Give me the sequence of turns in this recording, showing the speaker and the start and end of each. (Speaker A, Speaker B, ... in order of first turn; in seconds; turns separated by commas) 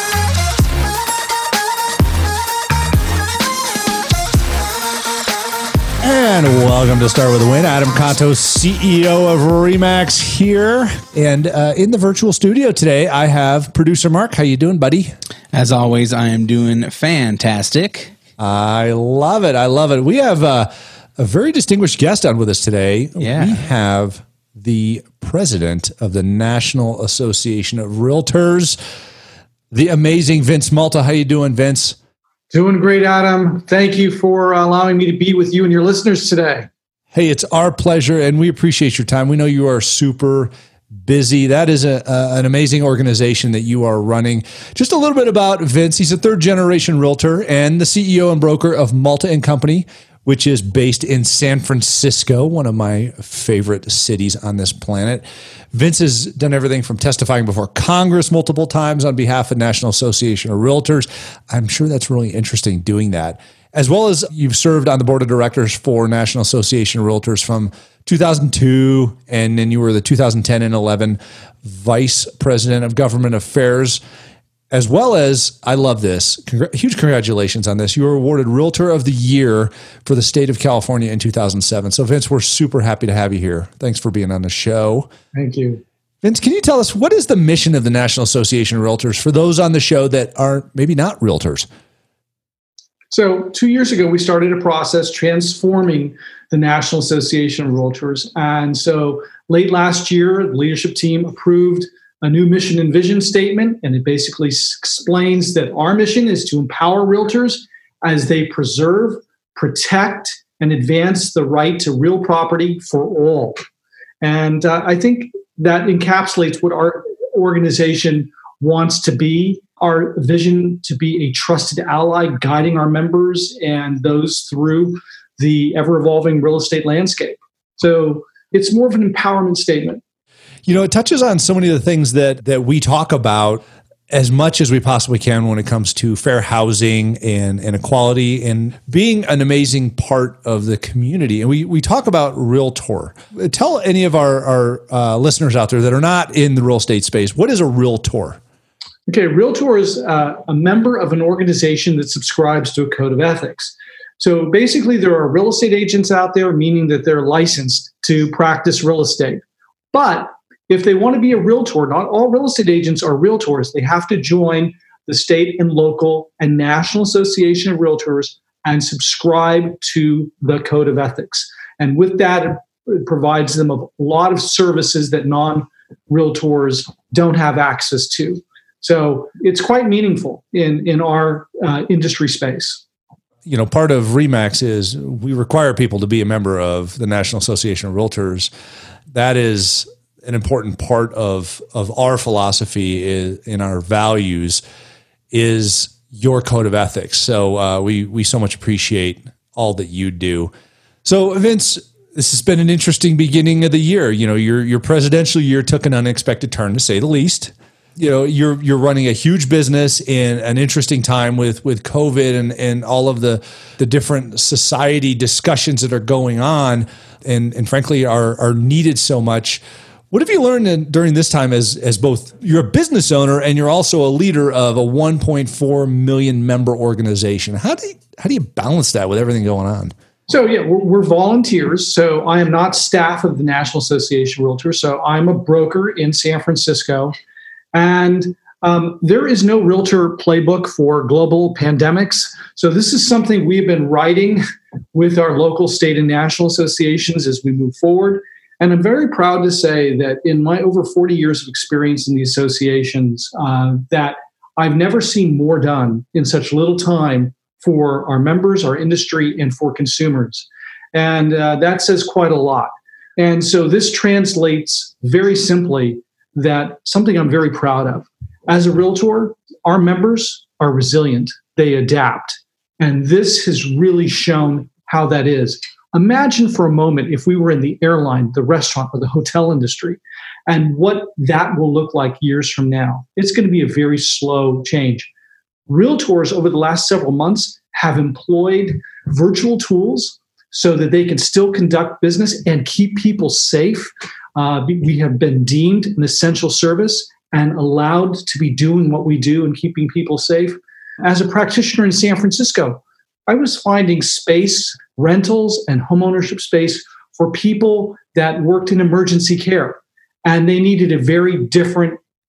Speaker A: 6.0-15.1, Speaker B: 15.5-18.1, Speaker A: 18.4-28.8, Speaker B: 23.2-23.6, Speaker A: 29.7-32.0, Speaker C: 32.5-36.7, Speaker A: 37.1-40.5, Speaker A: 41.0-74.0, Speaker A: 74.7-85.1, Speaker C: 85.3-85.8, Speaker A: 86.2-91.7, Speaker C: 93.1-113.6, Speaker C: 114.2-130.0, Speaker A: 130.7-148.4, Speaker C: 149.1-159.4, Speaker C: 159.9-182.8, Speaker A: 183.4-188.5, Speaker A: 189.1-194.6, Speaker A: 195.3-200.5, Speaker A: 201.0-229.9, Speaker C: 230.3-237.1, Speaker C: 237.7-285.1, Speaker C: 285.7-312.0